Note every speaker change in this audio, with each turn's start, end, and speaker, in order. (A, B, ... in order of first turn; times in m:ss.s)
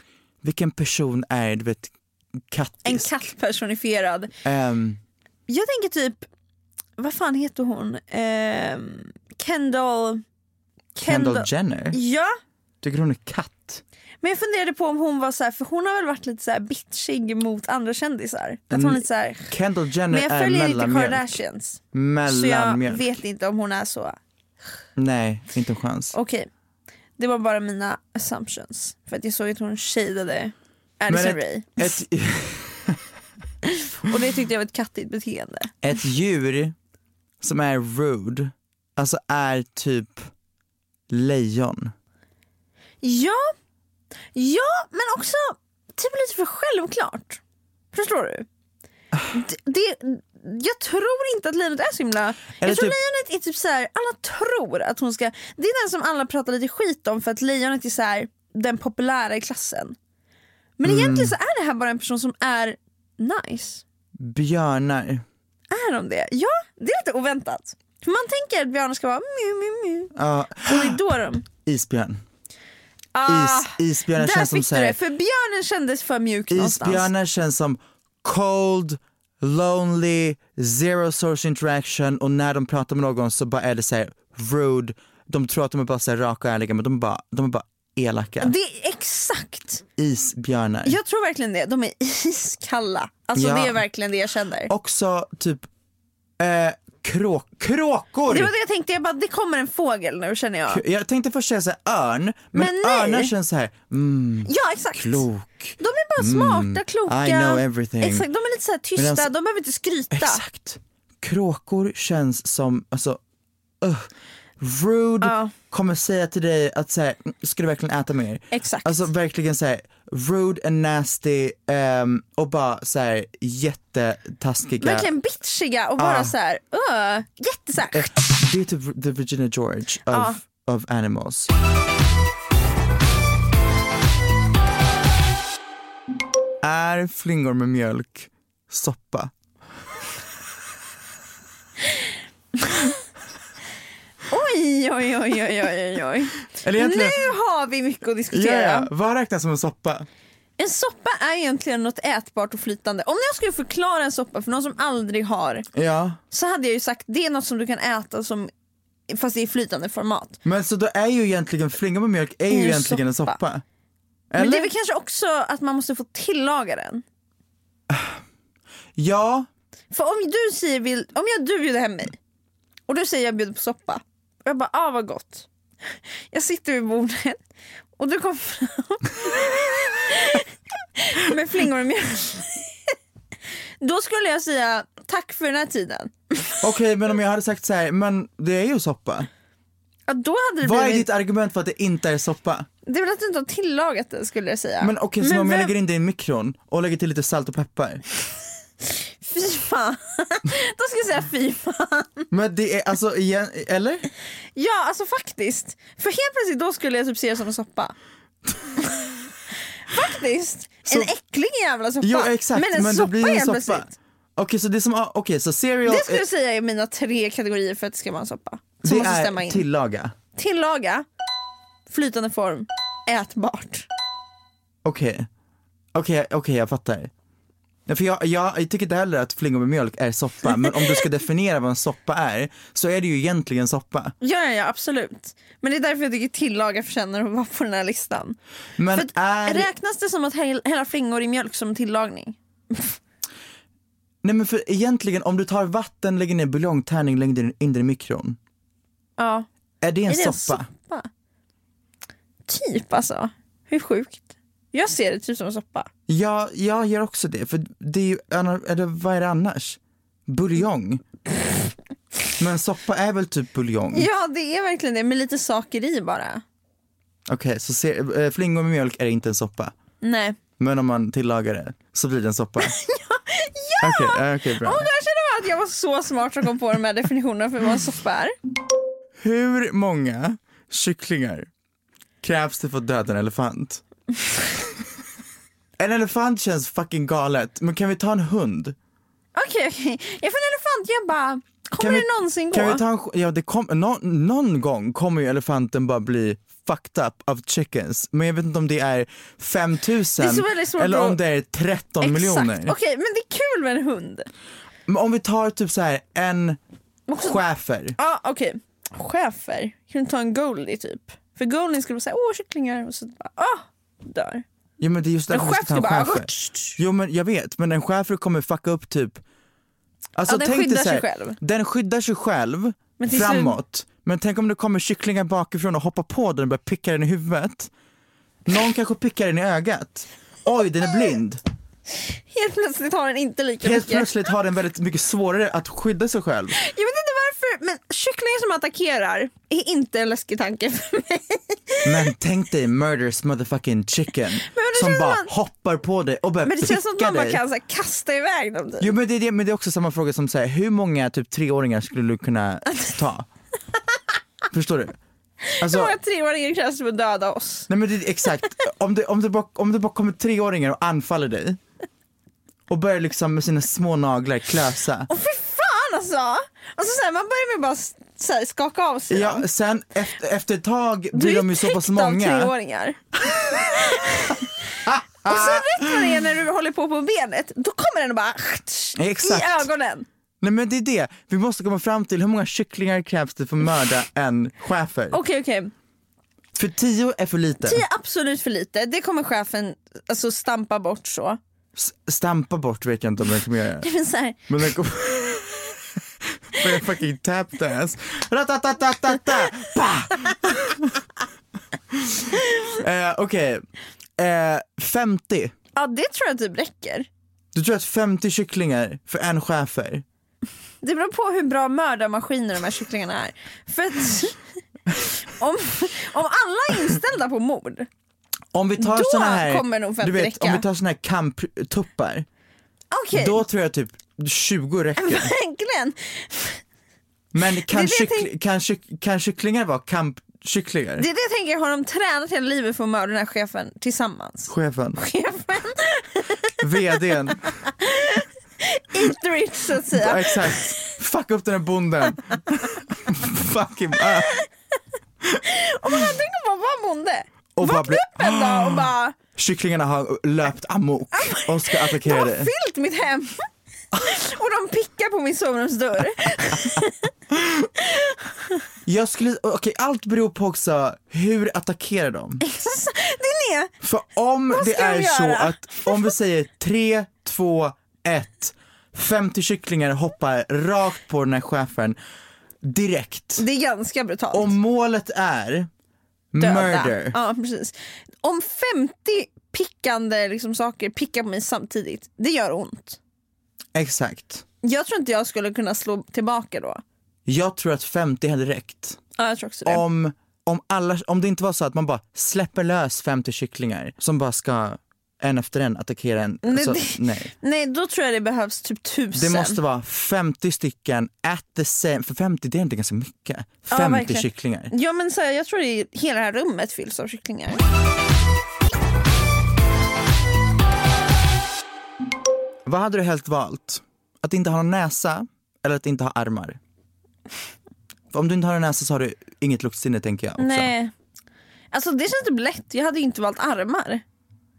0:00.4-0:01.9 A
0:02.5-0:03.2 A
0:02.8-0:04.3 B
0:04.4-0:05.0 A
0:05.5-0:06.3 B
0:07.0-0:10.2 B
0:11.0-0:12.3 B
0:11.0-0:12.0 A
0:12.8-0:13.8 A
0:14.2-0:19.5 B
0:18.7-0:21.3 A
0:20.1-0:24.2 B
0:21.9-0:23.2 A
0:25.0-0:26.1 A
0:26.1-0:26.5 B
0:27.2-0:32.0 B
0:31.1-0:33.0 A
0:33.7-0:35.7 B
0:35.8-0:36.8 A
0:37.4-0:40.3 A
0:41.1-0:41.9 A
0:43.0-0:43.5 B
0:44.4-0:47.4 B
0:47.9-0:48.5 B
0:49.3-1:00.0 B
0:52.6-0:53.0 A
1:00.8-1:03.8 B
1:00.8-1:01.4 A
1:04.2-1:05.2 A
1:05.7-1:11.5 B
1:10.2-1:11.0 A
1:11.6-1:12.2 A
1:13.2-1:17.1 B
1:13.3-1:15.0 A
1:16.5-1:28.5 A
1:28.4-1:29.8 B
1:30.0-1:31.0 A
1:30.9-1:34.7 B
1:33.4-1:33.8 A
1:34.7-1:35.7 A
1:36.4-1:38.5 A
1:38.3-1:40.8 B
1:40.7-1:48.3 A
1:42.5-1:43.3 B
1:44.5-1:45.3 B
1:45.8-1:50.4 B
1:49.0-1:49.3 A
1:50.1-1:53.2 A
1:53.8-1:54.1 A
1:54.6-2:05.1 A
1:55.2-1:55.5 B
1:58.5-1:59.1 B
2:04.8-2:08.2 B
2:06.0-2:06.4 A
2:07.9-2:11.5 A
2:10.1-2:10.4 B
2:16.6-2:19.3 A
2:24.3-2:28.9 B
2:26.6-2:27.2 A
2:28.3-2:30.1 A
2:30.6-2:35.7 B
2:35.7-2:36.2 A
2:36.3-2:38.5 B
2:39.1-2:40.4 B
2:40.4-2:43.6 A
2:42.5-2:43.4 B
2:44.3-2:44.7 A
2:44.4-2:47.0 B
2:47.9-2:48.2 A
2:49.0-2:49.5 A
2:49.9-2:52.2 B
2:52.9-2:55.5 B
2:56.3-2:57.4 B
2:58.0-3:02.7 B
3:03.8-3:06.6 B
3:06.6-3:09.3 A
3:10.1-3:11.1 B
3:10.6-3:12.7 A
3:12.9-3:15.7 B
3:14.8-3:18.0 A
3:19.2-3:22.3 B
3:22.3-3:24.1 A
3:24.6-3:28.0 B
3:29.8-3:33.9 B
3:30.8-3:31.1 A
3:32.0-3:36.3 A
3:35.9-3:39.7 B
3:38.8-3:40.1 A
3:40.4-3:41.1 B
3:41.9-3:43.9 B
3:44.8-3:45.3 A
3:46.0-3:47.1 A
3:47.9-3:54.2 A
3:54.2-3:58.4 B
3:58.8-3:59.7 A
3:58.9-4:03.0 B
4:04.2-4:08.4 A
4:09.2-4:09.5 B
4:09.8-4:10.7 A
4:10.1-4:11.1 B
4:12.5-4:15.9 B
4:16.1-4:21.0 A
4:22.4-4:24.1 A
4:23.9-4:26.4 B
4:27.3-4:29.8 A
4:30.0-4:30.4 B
4:30.6-4:32.8 A
4:32.6-4:38.3 B
4:33.8-4:34.9 A
4:39.2-4:41.5 A
4:42.2-4:43.8 A
4:45.8-4:48.8 A
4:49.4-4:52.8 B
4:51.8-5:02.8 A
5:00.2-5:01.2 B
5:02.0-5:04.3 B
5:04.9-5:06.6 A
5:07.1-5:07.4 B
5:07.2-5:08.0 A
5:08.0-5:14.4 B
5:14.8-5:19.2 A
5:15.3-5:16.8 B
5:20.2-5:27.7 A
5:20.3-5:21.4 B
5:23.0-5:23.6 B
5:28.5-5:31.4 A
5:32.3-5:34.1 B
5:33.6-5:36.6 A
5:36.5-5:42.1 B
5:41.8-5:47.4 A
5:44.4-5:45.3 B
5:46.4-5:48.9 B
5:48.8-5:53.3 A
5:54.5-5:55.0 A
5:55.5-5:57.7 B
5:55.6-5:56.0 A
5:57.7-6:01.6 A
6:02.7-6:05.1 A
6:05.1-6:09.5 B
6:09.1-6:12.5 A
6:11.1-6:14.4 B
6:13.3-6:16.1 A
6:15.2-6:20.1 B
6:19.0-6:19.7 A
6:20.4-6:25.2 A
6:25.1-6:25.7 B
6:26.6-6:27.8 A
6:27.6-6:31.4 B
6:31.8-6:33.9 A
6:33.8-6:34.5 B
6:34.5-6:35.6 A
6:36.5-6:41.0 A
6:41.9-6:43.6 A
6:44.2-6:45.5 A
6:45.8-6:47.1 B
6:47.5-6:50.0 A
6:50.8-6:54.4 B
6:55.2-6:57.9 B
6:58.5-7:02.3 A
6:58.8-7:00.6 B
7:02.9-7:03.4 B
7:03.1-7:05.3 A
7:05.0-7:06.6 B
7:07.3-7:11.1 A
7:07.7-7:08.3 B
7:11.0-7:17.0 B
7:14.5-7:15.0 A
7:16.6-7:17.5 A
7:17.6-7:20.7 B
7:19.9-7:24.4 A
7:24.0-7:24.4 B
7:25.4-7:29.2 B
7:27.6-7:32.5 A
7:31.1-7:33.5 B
7:34.0-7:37.1 B
7:37.3-7:37.7 A
7:38.8-7:42.4 A
7:42.4-7:43.7 B
7:43.8-7:52.0 A
7:44.5-7:46.1 B
7:52.6-7:53.4 A
7:53.4-7:54.6 B
7:54.3-7:55.7 A
7:56.3-7:57.2 A
7:56.4-8:03.0 B
8:03.8-8:04.4 A
8:04.6-8:06.8 B
8:07.3-8:09.0 A
8:09.2-8:09.8 B
8:09.6-8:17.3 A
8:16.4-8:19.6 B
8:19.1-8:24.7 A
8:23.7-8:27.6 B
8:32.7-8:36.6 A
8:38.1-8:40.7 A
8:40.4-8:40.9 B
8:41.7-8:44.0 B